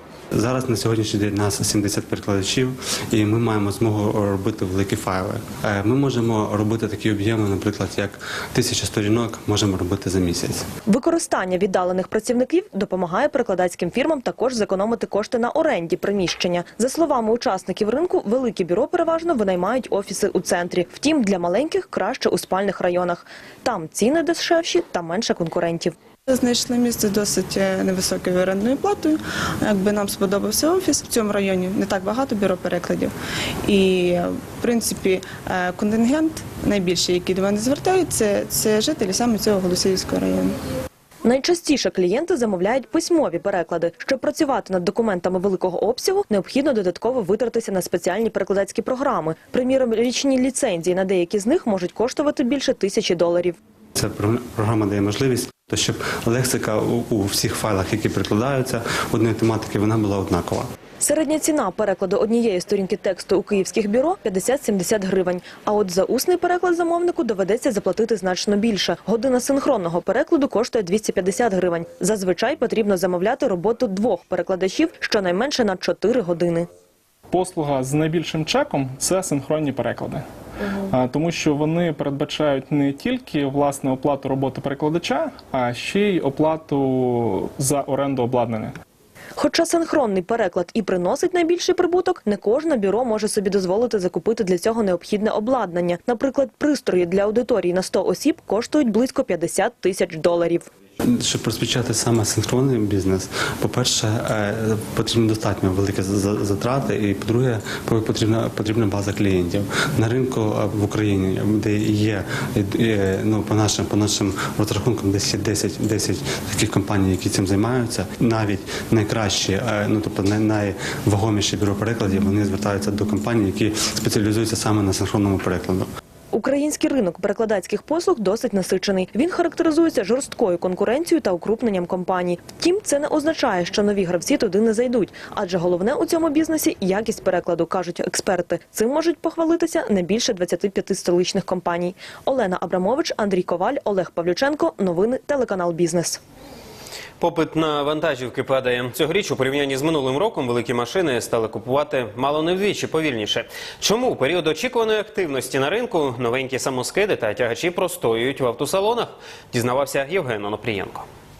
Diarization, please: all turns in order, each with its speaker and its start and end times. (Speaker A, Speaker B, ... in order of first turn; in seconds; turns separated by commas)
Speaker A: 0.3-10.7, Speaker B: 10.9-25.9, Speaker C: 26.3-33.1, Speaker C: 33.7-40.6, Speaker B: 41.2-53.6, Speaker A: 54.0-60.7, Speaker B: 61.0-76.7, Speaker D: 77.3-80.2, Speaker D: 80.9-88.8, Speaker B: 89.4-100.7, Speaker A: 101.0-125.9, Speaker B: 126.3-146.2, Speaker E: 147.2-161.1